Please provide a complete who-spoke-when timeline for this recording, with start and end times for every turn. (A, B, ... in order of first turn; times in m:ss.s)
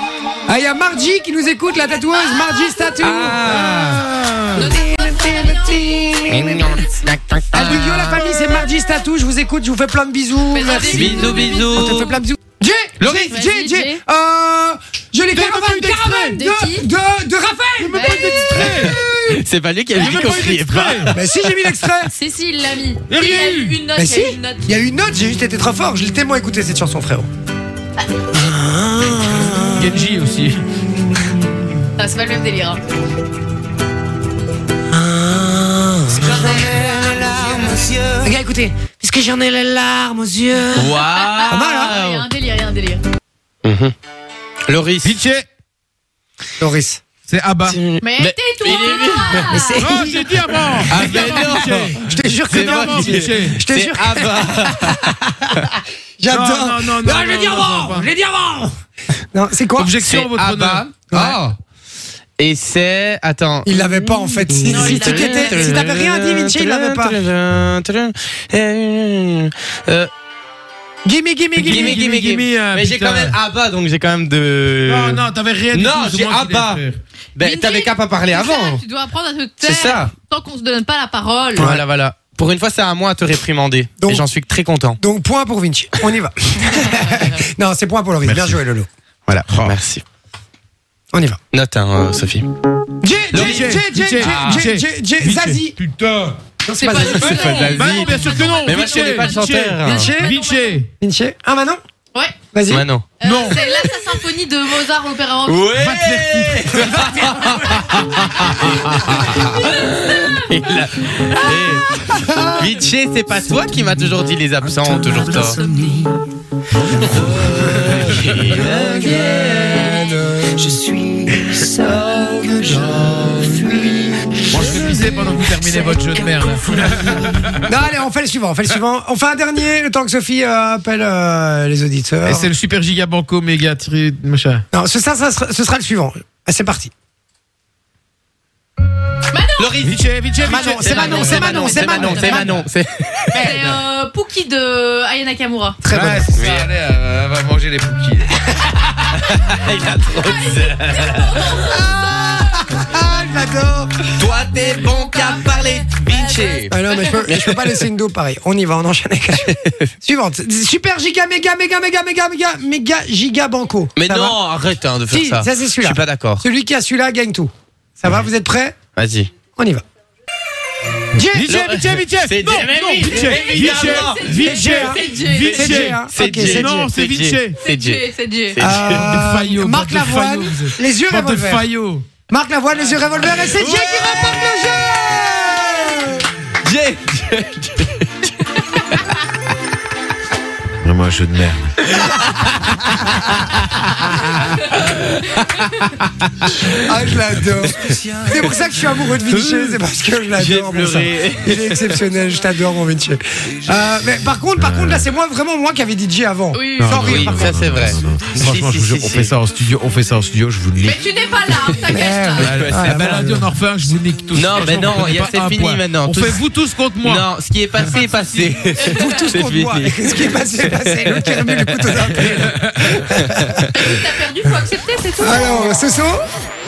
0:00.4-0:06.8 A
0:03.0-0:04.0 B
0:04.2-0:04.6 C
0:04.5-0:05.9 D
0:06.3-0:08.6 B
0:07.5-0:19.4 A
0:10.5-0:12.1 D
0:10.6-0:12.2 B
0:13.0-0:13.4 B
0:13.3-0:14.0 E
0:15.3-0:16.4 C
0:16.3-0:16.9 E
0:17.8-0:19.0 C
0:17.9-0:18.4 E
0:18.5-0:21.2 B
0:19.9-0:21.1 C
0:21.1-0:22.1 A
0:22.2-0:23.0 E
0:23.1-0:23.8 C
0:23.1-0:24.6 D
0:23.9-0:27.3 A
0:28.3-0:30.0 A
0:29.8-0:30.6 C
0:31.1-0:31.4 A
0:32.0-0:32.8 E
0:34.9-0:42.0 A
0:36.4-0:37.0 D
0:36.5-0:38.1 B
0:40.7-0:42.3 B
0:41.7-0:42.8 E
0:42.1-0:43.0 D
0:43.6-0:43.9 B
0:44.7-0:45.2 B
0:45.0-0:45.5 C
0:46.6-0:47.0 A
0:47.2-0:47.8 C
0:47.6-0:49.7 B
0:48.0-0:49.5 D
0:48.9-0:49.9 E
0:49.5-0:58.7 A
0:49.8-0:53.6 C
0:50.8-0:55.0 B
0:56.3-0:58.1 C
0:59.3-1:00.0 A
0:59.8-1:00.9 C
1:00.0-1:01.6 B
1:01.1-1:01.4 A
1:02.4-1:10.1 B
1:03.6-1:07.3 A
1:04.7-1:05.7 D
1:11.0-1:12.0 A
1:11.5-1:13.4 C
1:11.6-1:16.8 B
1:14.9-1:17.0 C
1:17.4-1:18.8 B
1:17.4-1:21.7 D
1:19.6-1:20.1 B
1:21.6-1:21.8 A
1:21.6-1:25.0 B
1:24.0-1:24.3 A
1:25.0-1:28.9 A
1:28.2-1:28.6 C
1:29.3-1:30.0 B
1:29.5-1:29.8 C
1:31.1-1:31.4 A
1:31.5-1:32.5 B
1:33.0-1:35.8 A
1:33.3-1:36.4 C
1:33.3-1:33.6 B
1:34.2-1:34.6 B
1:36.6-1:37.8 A
1:36.8-1:40.8 D
1:37.0-1:40.1 B
1:37.2-1:40.9 C
1:39.8-1:40.4 A
1:41.0-1:41.8 A
1:42.5-1:42.8 A
1:42.7-1:43.1 B
1:43.2-1:45.7 D
1:43.2-1:43.6 C
1:45.4-1:55.7 B
1:45.7-1:47.2 C
1:48.5-1:49.2 C
1:52.1-1:52.6 A
1:55.0-1:56.2 A
1:56.9-2:04.5 A
1:56.9-2:00.0 B
2:02.9-2:03.4 B
2:04.5-2:07.6 C
2:07.6-2:12.5 A
2:12.2-2:14.6 C
2:14.7-2:16.9 A
2:19.3-2:19.8 D
2:19.6-2:23.4 B
2:19.8-2:21.6 C
2:20.4-2:22.6 A
2:20.9-2:22.6 D
2:23.3-2:23.8 C
2:23.3-2:25.8 D
2:25.8-2:26.3 A
2:25.9-2:28.3 C
2:26.3-2:26.7 B
2:29.0-2:31.8 B
2:31.6-2:34.0 A
2:34.2-2:37.8 B
2:36.7-2:44.4 A
2:39.5-2:39.8 B
2:44.0-2:46.4 B
2:45.1-2:48.8 A
2:48.9-2:49.3 B
2:49.6-2:49.8 A
2:51.1-2:51.5 A
2:51.3-2:57.6 C
2:51.4-2:54.4 B
2:53.3-2:55.6 D
2:54.2-2:56.9 A
2:56.0-2:59.2 B
2:57.4-2:58.6 D
2:58.6-3:01.6 A
2:58.7-3:02.1 C
3:02.3-3:06.3 A
3:03.6-3:04.6 B
3:06.6-3:09.1 B
3:10.8-3:11.7 C
3:11.8-3:13.1 B
3:14.8-3:15.8 B
3:16.8-3:27.7 A
3:17.7-3:18.6 B
3:19.2-3:19.8 B
3:20.3-3:22.0 B
3:24.6-3:25.0 C
3:26.5-3:27.0 D
3:26.8-3:31.0 C
3:26.8-3:29.3 B
3:30.8-3:32.5 D
3:31.7-3:33.2 B
3:31.9-3:33.5 A
3:32.4-3:37.3 C
3:34.3-3:36.4 B
3:37.0-3:42.4 B
3:38.8-3:39.2 D
3:38.8-3:43.8 A
3:42.4-3:43.0 C
3:43.2-3:43.7 B
3:43.7-3:45.8 D
3:45.2-3:46.2 A